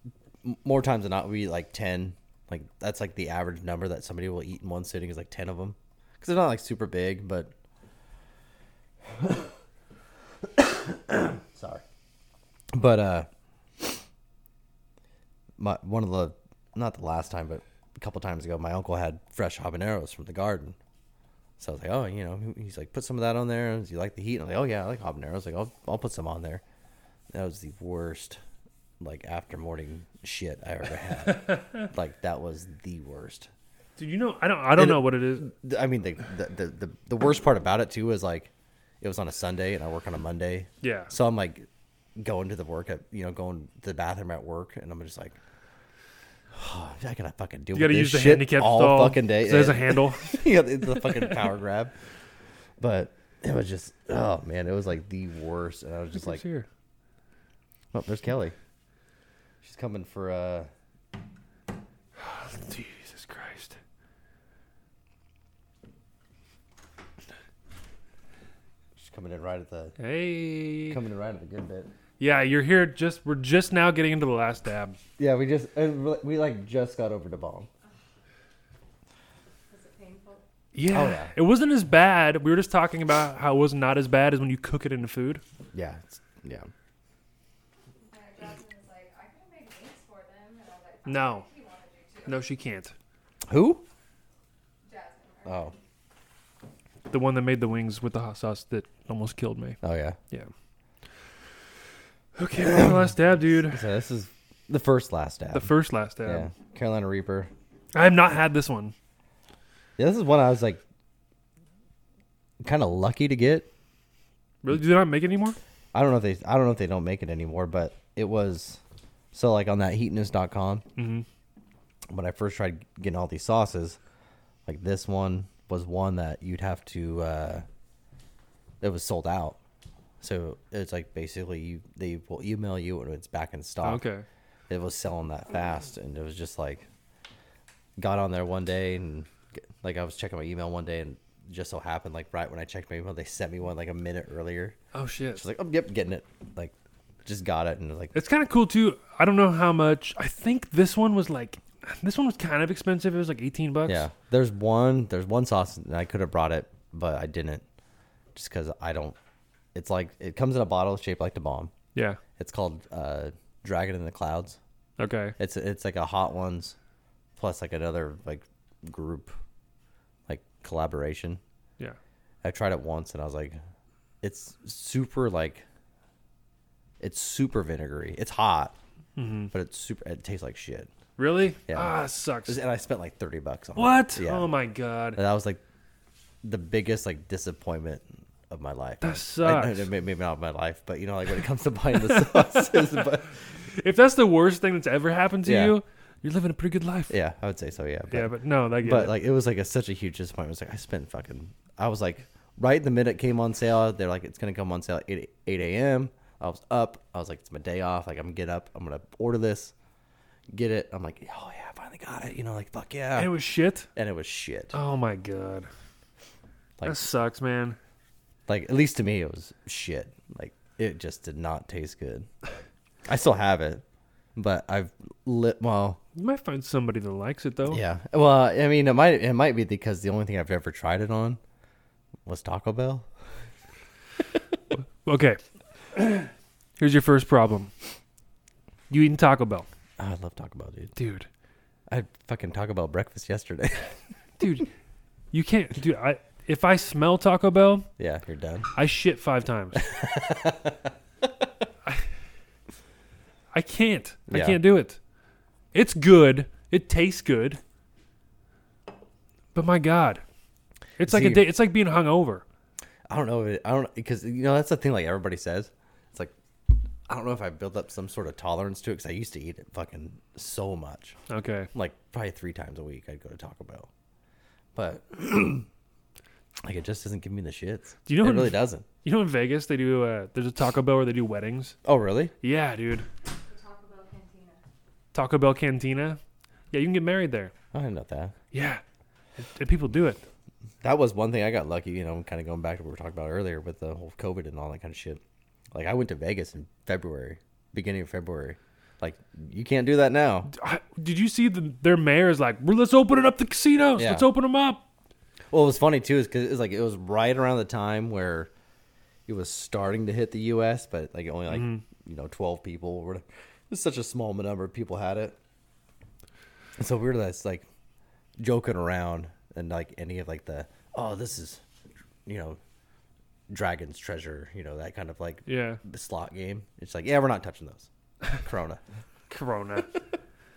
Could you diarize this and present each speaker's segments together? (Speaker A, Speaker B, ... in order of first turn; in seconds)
Speaker A: 0.4-7.5, 9.1-9.5, 10.5-11.8, 12.7-13.3, 15.6-20.8, 21.6-26.6, 27.3-28.4, 29.0-33.5, 34.8-45.4, 46.5-51.9, 52.8-56.4, 57.9-58.5, 59.6-60.7, 69.0-70.0, 70.9-71.9, 75.2-77.7, 80.9-81.3, 85.7-86.7, 93.5-93.8, 95.5-95.7, 99.8-100.2, 102.6-103.0, 103.6-105.7, 106.2-107.5, 110.0-110.8, 112.6-113.7, 115.9-118.8, 119.3-120.8, 122.1-124.0, 124.7-127.7, 128.8-129.6, 130.2-134.0, 134.7-136.9, 138.0-144.8, 145.3-146.7, 147.2-148.2, 153.9-157.6, 158.3-159.2, 159.8-161.7, 162.4-164.6, 165.4-166.8, 167.4-169.4, 170.3-171.4, 172.4-173.6, 174.2-175.6, 177.0-178.8, 179.5-180.9, 181.7-184.5, 185.2-185.6, 186.4-193.4, 195.4-195.8, 197.1-209.7, 210.5-213.3, 213.9-214.8, 216.8-217.1, 218.5-222.3, 223.1-223.8, 224.4-226.0, 227.7-231.4, 232.3-233.1, 240.0-240.9, 241.9-243.9, 248.0-248.7, 249.8-250.9, 254.3-254.6, 261.0-261.5, 263.1-266.3, 267.1-271.2, 271.7-273.9, 274.8-275.7, 276.6-278.9, 281.9-282.3, 287.7-288.4, 290.8-295.2, 295.7-300.5, 304.0-304.3, 305.5-308.5, 309.3-315.4, 316.8-317.7, 318.4-321.6, 322.3-322.6, 323.5-328.8
Speaker B: 31.3-31.6, 34.0-35.5, 40.8-41.1, 47.7-51.5, 56.1-56.7, 62.2-63.8, 70.0-71.0, 72.2-75.0, 80.7-85.4, 91.1-91.5, 92.3-92.9, 97.1-99.8, 102.4-103.8, 105.5-106.5, 107.9-108.9, 114.6-115.6, 121.0-121.3, 133.8-134.2, 144.9-145.4, 148.1-154.1, 161.9-162.2, 165.0-165.3, 179.2-179.5, 181.2-182.6, 183.8-185.2, 189.0-189.9, 191.9-197.1, 198.1-199.1, 213.2-213.9, 214.7-215.7, 216.8-217.8, 226.2-227.8, 234.7-235.4, 235.9-237.7, 238.9-239.7, 241.0-241.3, 244.4-244.7, 245.3-247.9, 248.8-249.8, 253.5-255.0, 255.7-257.6, 259.5-260.2, 261.0-262.4, 271.3-271.7, 278.1-281.8, 282.4-283.1, 285.1-286.2, 286.7-287.5, 288.5-288.8, 289.4-290.2, 300.5-304.8, 311.5-311.8, 325.5-325.8, 329.3-329.9
Speaker C: 79.7-80.4, 88.1-92.5, 94.8-95.8, 283.4-284.6